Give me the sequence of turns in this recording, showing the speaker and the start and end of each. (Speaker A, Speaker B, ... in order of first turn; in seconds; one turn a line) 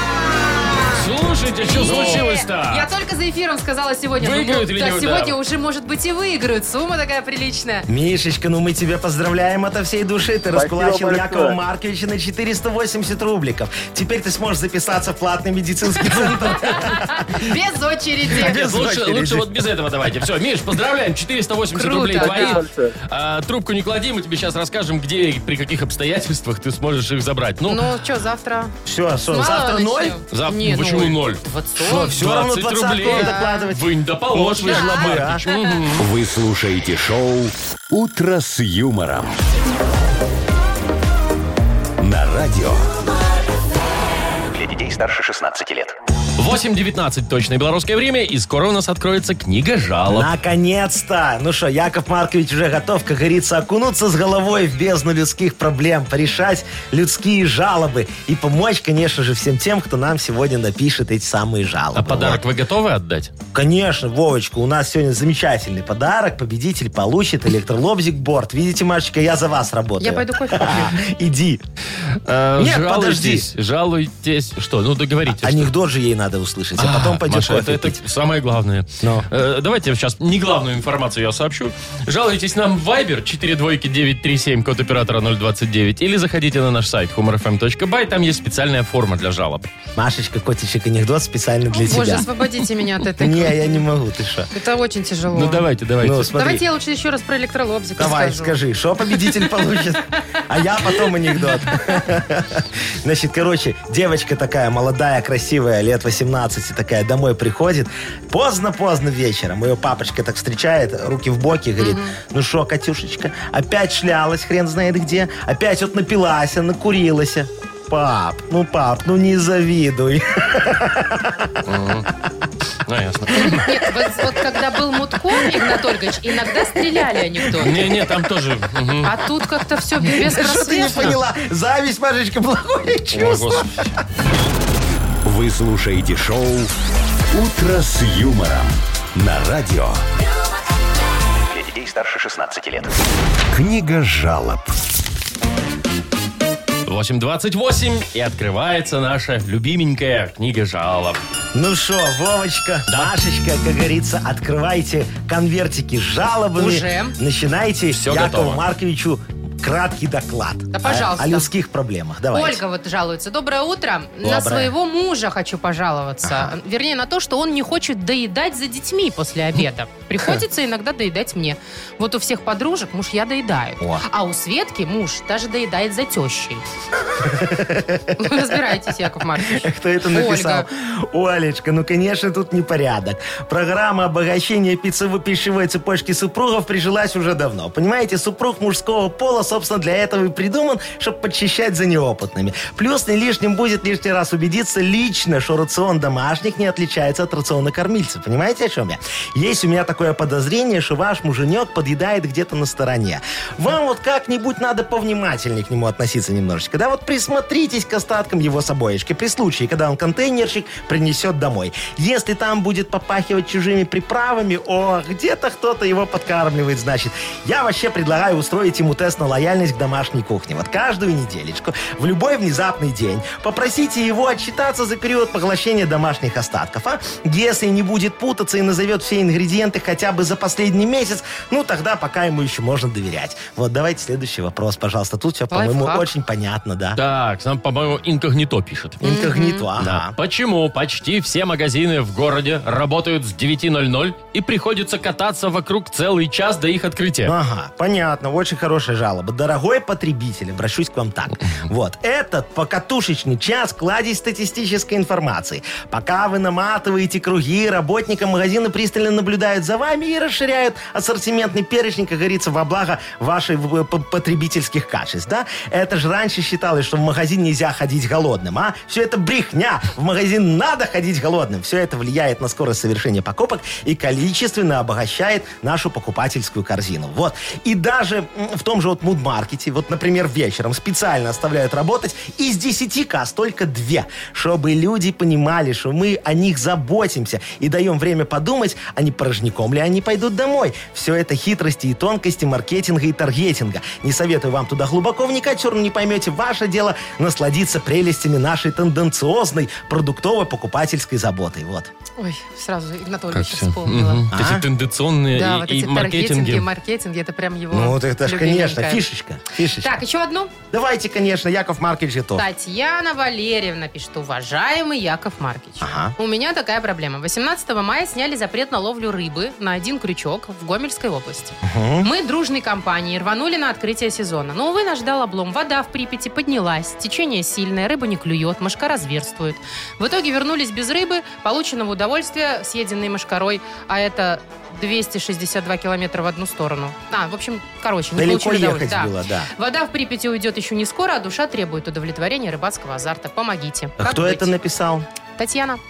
Speaker A: 0.4-1.0
Speaker B: 0.9-2.9
Speaker A: 1.6-7.9
Speaker C: 1.9-2.2
Speaker B: 4.2-5.4
Speaker C: 7.9-17.4
Speaker A: 16.3-18.6
Speaker C: 18.3-19.6
Speaker B: 18.4-28.0
Speaker A: 21.7-22.6
Speaker A: 27.7-28.8
Speaker C: 28.9-30.2
Speaker A: 29.3-32.1
Speaker B: 30.3-36.0
Speaker C: 31.8-35.4
Speaker A: 33.0-33.7
Speaker A: 34.6-35.8
Speaker D: 36.0-39.4
Speaker D: 42.0-42.9
Speaker E: 44.5-46.0
Speaker B: 46.4-50.3
Speaker C: 50.1-62.4
Speaker B: 62.0-63.3
Speaker C: 63.5-71.6
Speaker A: 70.0-71.0
Speaker B: 72.2-75.7
Speaker C: 72.6-73.5
Speaker C: 75.3-78.0
Speaker B: 76.8-89.7
Speaker C: 79.0-79.3
Speaker C: 90.0-92.3
Speaker A: 91.7-93.6
Speaker C: 93.2-94.5
Speaker A: 94.5-95.7
Speaker B: 95.3-96.3
Speaker C: 96.0-96.6
Speaker A: 96.3-98.6
Speaker C: 98.0-121.5
Speaker A: 111.8-112.2
Speaker B: 121.7-122.1
Speaker B: 122.8-123.7
Speaker A: 123.3-127.7
Speaker B: 127.6-129.1
Speaker C: 127.6-127.9
Speaker A: 129.0-131.2
Speaker C: 130.0-133.9
Speaker B: 133.1-134.0
Speaker D: 135.2-136.7
Speaker D: 137.3-140.0
Speaker E: 141.5-142.9
Speaker D: 143.5-144.8
Speaker B: 146.8-151.2
Speaker C: 151.5-162.6
Speaker A: 156.6-157.2
Speaker B: 157.9-158.6
Speaker A: 160.7-161.5
Speaker A: 162.3-176.6
Speaker C: 164.2-164.7
Speaker C: 166.2-166.5
Speaker C: 173.8-174.1
Speaker C: 177.1-178.8
Speaker A: 178.2-180.7
Speaker C: 179.4-237.0
Speaker A: 235.5-236.1
Speaker B: 237.0-239.0
Speaker C: 239.0-240.2
Speaker A: 239.0-239.7
Speaker B: 239.8-247.3
Speaker C: 247.2-301.9
Speaker A: 302.2-304.3
Speaker B: 303.3-306.7
Speaker C: 304.3-304.6
Speaker A: 305.3-309.0
Speaker C: 307.7-309.9
Speaker A: 309.8-310.5
Speaker C: 310.7-312.4
Speaker A: 312.4-344.5
Speaker C: 315.8-316.1
Speaker C: 321.6-322.1
Speaker C: 338.1-339.5
Speaker C: 344.0-345.1
Speaker A: 345.4-345.8